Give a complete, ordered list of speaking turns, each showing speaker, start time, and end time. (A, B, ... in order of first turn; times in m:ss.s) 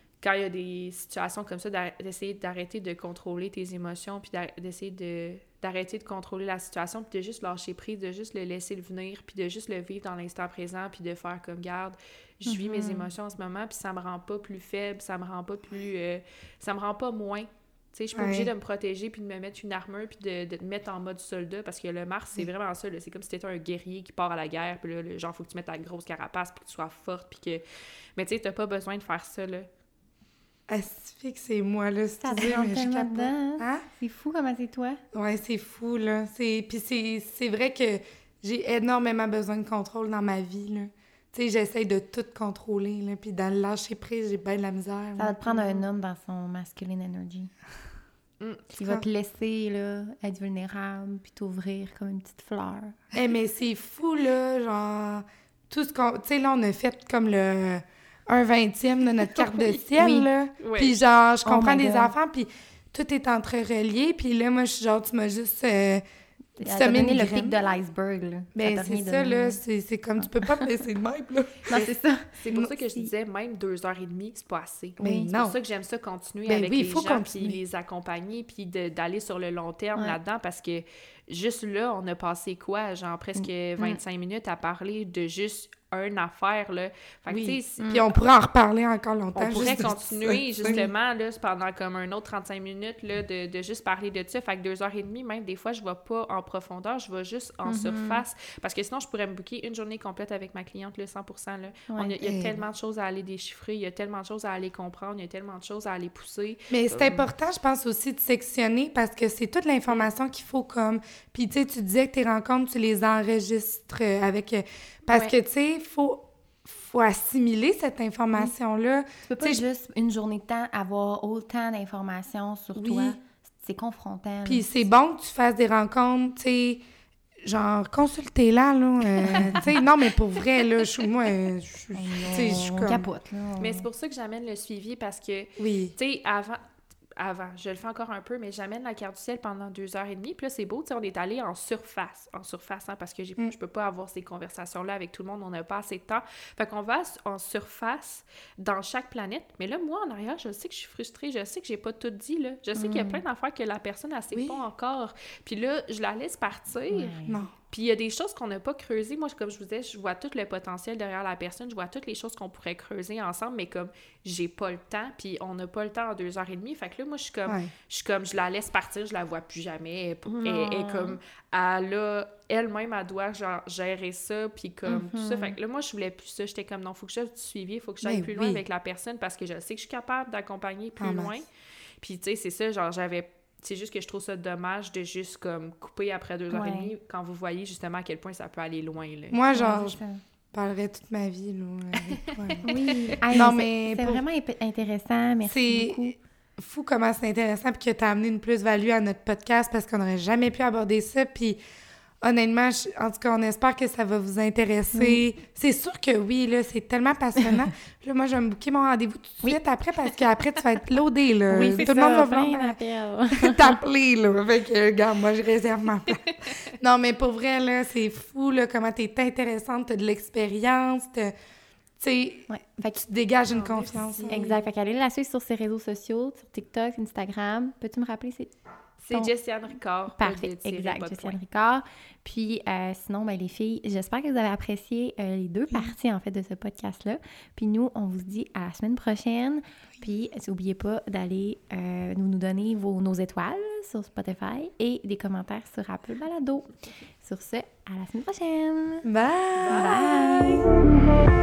0:00.2-0:27.6 A
0:12.4-0:13.1 B
0:18.1-0:18.5 C
0:28.2-0:29.7 A
0:30.7-0:33.8 C
0:32.2-0:35.0 B
0:35.1-0:45.4 C
0:45.2-0:47.5 B
0:45.5-0:45.8 A
0:48.4-0:48.7 A
0:48.8-0:53.0 B
0:53.1-1:06.0 C
0:59.5-0:59.7 A
1:00.0-1:00.3 B
1:00.6-1:01.0 A
1:01.4-1:02.1 B
1:06.6-1:09.6 B
1:06.6-1:07.6 C
1:08.5-1:11.8 C
1:10.2-1:10.8 B
1:11.7-1:12.3 B
1:12.4-1:28.0 A
1:15.0-1:15.3 B
1:15.0-1:15.6 C
1:16.5-1:17.6 C
1:23.4-1:24.0 B
1:27.3-1:30.8 C
1:27.8-1:28.1 B
1:29.3-1:47.3 A
1:37.6-1:38.2 B
1:41.9-1:42.2 B
1:42.2-1:42.6 C
1:46.7-1:59.6 C
1:59.3-2:04.7 B
2:02.7-2:03.2 C
2:04.4-2:06.8 C
2:07.4-2:13.1 C
2:09.2-2:09.7 B
2:11.9-2:13.9 B
2:13.6-2:16.6 A
2:15.6-2:16.0 C
2:17.2-3:01.5 A
2:32.8-2:33.2 B
2:34.3-2:34.6 C
2:36.9-2:37.4 B
2:37.2-2:37.5 C
2:47.5-2:47.7 C
2:50.3-2:51.2 B
2:54.9-2:55.6 B
2:58.0-2:58.6 C
3:01.0-3:01.4 C
3:02.0-3:09.4 A
3:06.5-3:06.9 B
3:09.3-3:10.0 C
3:09.5-3:10.2 B
3:10.5-3:12.7 C
3:12.1-3:13.2 A
3:12.6-3:16.2 B
3:13.2-3:14.2 C
3:15.4-3:21.6 C
3:22.2-3:32.8 C
3:24.9-3:25.2 B
3:31.5-3:33.8 B
3:33.3-3:41.3 C
3:42.0-3:44.5 C
3:42.5-3:43.0 B
3:43.5-3:44.6 A
3:44.3-3:48.5 B
3:49.0-3:51.4 A
3:50.1-4:09.0 B
4:09.0-4:10.6 C
4:09.6-4:10.0 A
4:09.7-4:10.7 B